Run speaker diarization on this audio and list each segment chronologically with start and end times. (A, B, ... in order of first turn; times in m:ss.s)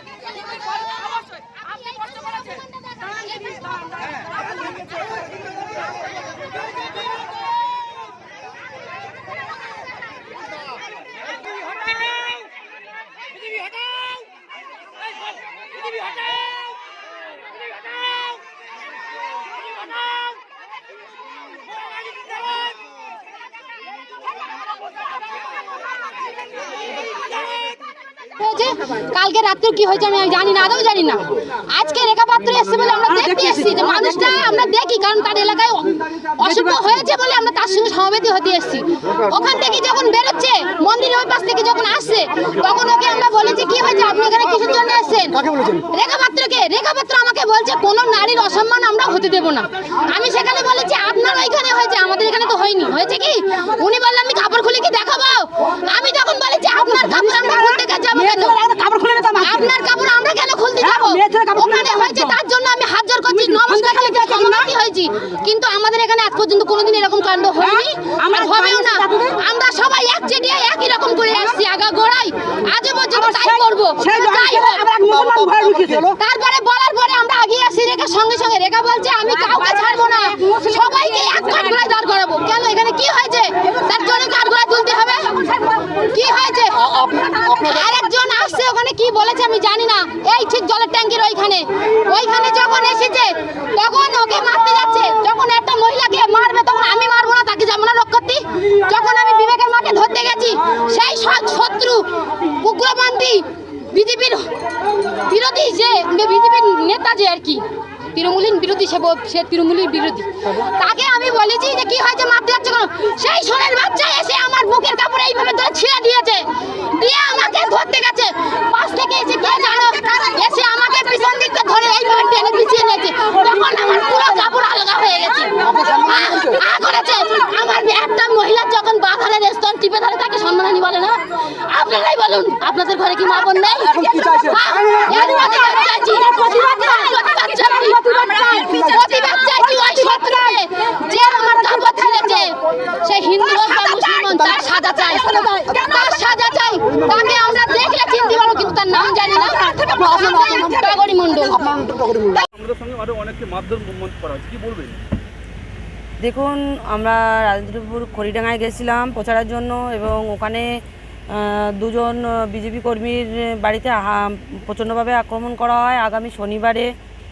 0:00.7-0:04.3 A
0:28.4-0:58.6 A
0:33.1-0:34.3 B
0:36.4-0:36.8 B
0:56.9-0:59.7 B
0:59.4-1:14.9 A
1:00.8-1:02.4 B
1:03.4-1:04.7 B
1:07.6-1:09.3 B
1:13.1-1:16.2 B
1:16.2-1:25.3 A
1:25.9-1:44.5 A
1:26.9-1:27.7 B
1:45.1-2:31.9 A
2:13.8-2:20.5 B
2:23.5-2:26.2 B
2:29.0-2:32.4 B
2:32.6-2:35.0 C
2:36.2-2:40.7 D
2:41.3-2:46.9 D